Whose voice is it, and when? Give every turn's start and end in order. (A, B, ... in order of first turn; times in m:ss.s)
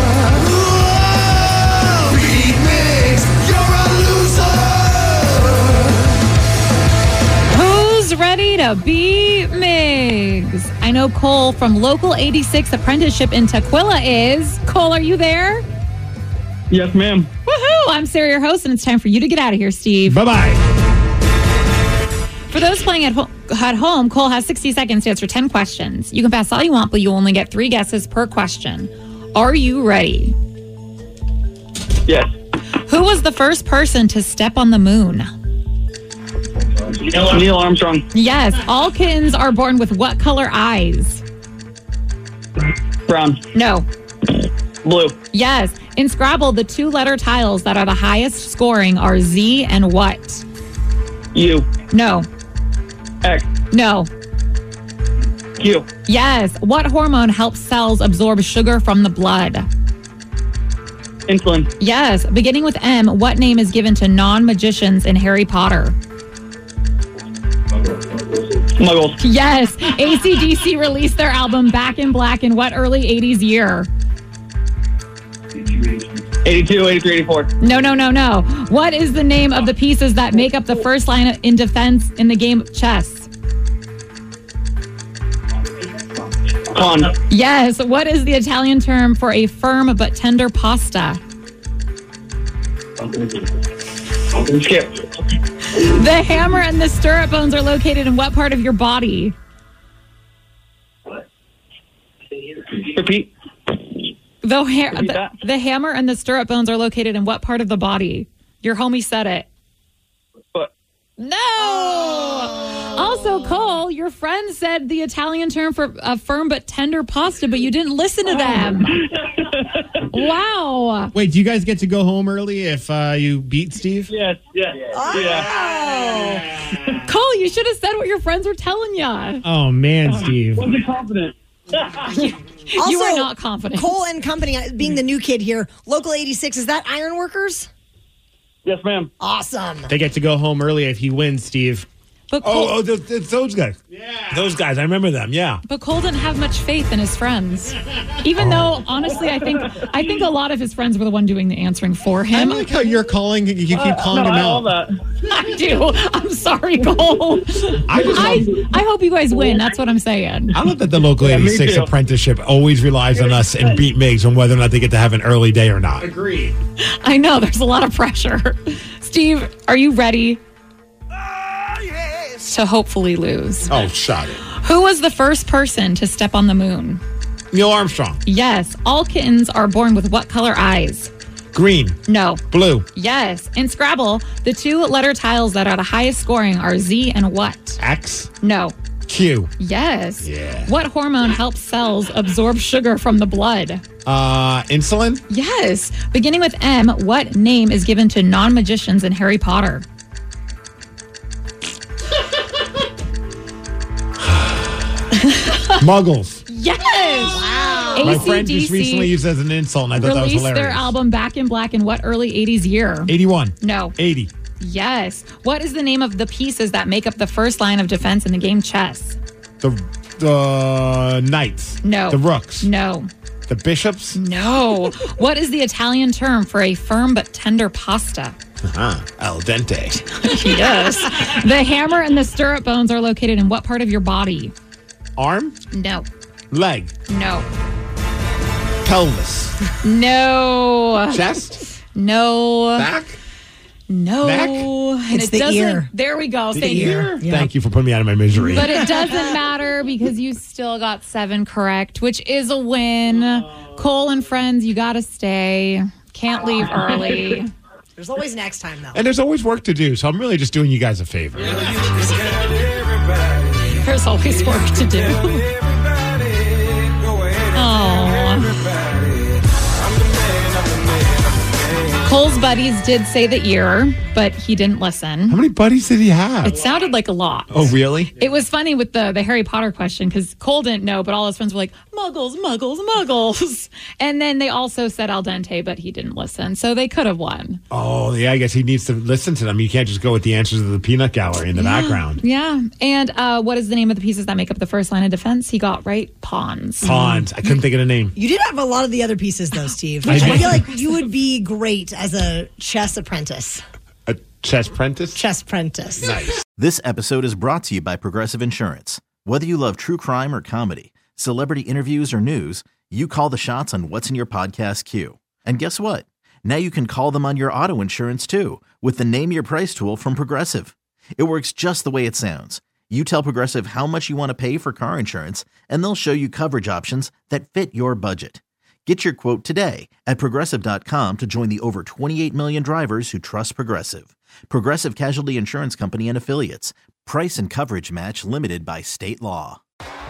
0:00.2-0:05.6 A
0:07.5-0:15.6 B
0:16.7-0:17.3 C
0:17.5-0:20.2 B
0:20.1-0:20.6 D
0:22.5-0:30.3 B
0:32.8-0:35.3 B
0:36.8-0:38.0 C
0:38.1-0:41.2 B
0:43.1-0:43.4 C
0:43.5-0:43.9 B
0:44.8-0:45.2 C
0:45.3-0:50.4 B
0:51.3-0:51.7 C
0:51.9-0:52.3 B
0:53.2-0:53.5 C
0:53.7-0:54.1 B
0:55.6-0:55.9 C
0:56.0-0:59.7 B
1:01.3-1:01.7 C
1:01.8-1:06.0 B
1:07.8-1:09.2 C
1:09.2-1:13.9 B
1:15.6-1:17.5 C
1:17.6-1:23.3 B
1:26.7-1:27.2 C
1:27.3-1:31.2 B
1:33.0-1:33.5 C
1:34.3-1:35.2 C
1:35.7-1:39.3 B
1:42.5-1:43.3 C
1:44.4-1:49.5 B
1:44.9-1:45.3 C
1:51.2-1:59.0 B
1:58.5-1:59.8 C
2:00.1-2:01.1 B
2:01.1-2:04.1 E
2:04.1-2:05.7 C
2:04.9-2:06.5 F
2:06.6-2:07.0 C
2:07.1-2:09.4 B
2:09.4-2:10.6 E
2:10.0-2:12.2 C
2:12.7-2:14.0 B
2:12.8-2:17.7 F
2:18.6-2:19.1 C
2:19.2-2:19.9 F
2:19.9-2:21.9 E
2:22.3-2:22.8 B
2:22.4-2:23.8 D
2:23.9-2:24.5 E
2:24.3-2:25.6 D
2:25.6-2:32.7 B
2:28.4-2:28.8 D
2:32.3-2:34.6 E
2:33.7-2:35.0 C
2:35.3-2:40.6 B
2:37.8-2:38.5 D
2:37.9-2:38.7 C
2:40.5-2:46.1 D
2:41.1-2:41.9 C
2:43.1-2:43.8 C
2:46.0-2:46.5 E
2:46.8-2:50.4 B
2:52.4-2:53.8 B
2:53.7-2:54.4 D
2:54.5-2:57.0 B
2:57.5-2:58.2 D
2:58.2-3:01.1 B
3:01.5-3:02.0 D
3:02.1-3:02.4 B
3:02.5-3:02.8 D
3:02.9-3:07.8 B
3:07.8-3:08.3 D
3:08.4-3:08.8 B
3:09.1-3:09.5 D
3:09.6-3:13.8 B
3:10.2-3:10.7 D
3:14.0-3:15.2 D
3:15.3-3:19.8 B
3:24.3-3:24.6 D
3:25.3-3:25.8 B
3:25.8-3:26.4 D
3:26.5-3:29.2 B
3:27.2-3:28.2 F
3:28.0-3:30.9 D
3:29.9-3:34.0 B
3:33.1-3:34.3 D
3:34.6-3:39.2 B
3:39.6-3:42.7 D
3:41.8-3:43.1 B
3:43.5-3:44.2 D
3:44.1-3:48.4 B
3:48.6-3:50.0 D
3:50.2-3:54.5 B
3:55.2-3:55.5 D
3:55.7-3:56.1 B
3:56.5-3:56.9 D
3:57.1-3:57.5 B
3:58.8-3:59.5 D
3:59.8-4:01.3 B
4:01.1-4:01.6 D
4:01.8-4:02.9 B
4:02.8-4:03.2 D
4:03.9-4:07.0 B
4:04.2-4:04.7 D
4:05.1-4:05.9 F
4:06.6-4:07.5 F
4:06.6-4:08.7 D
4:08.5-4:17.5 B
4:18.0-4:19.0 F
4:18.9-4:21.6 D
4:23.7-4:25.5 B
4:27.5-4:28.7 B
4:32.0-4:35.4 B
4:35.3-4:36.5 D
4:36.4-4:47.6 B
4:37.5-4:38.1 D
4:47.7-4:52.2 D
4:51.5-4:56.9 B
4:56.8-4:58.1 D
4:58.2-5:03.6 F
5:00.0-5:00.6 D
5:04.1-5:05.2 D
5:05.1-5:06.2 F
5:06.0-5:06.4 D
5:06.6-5:39.6 G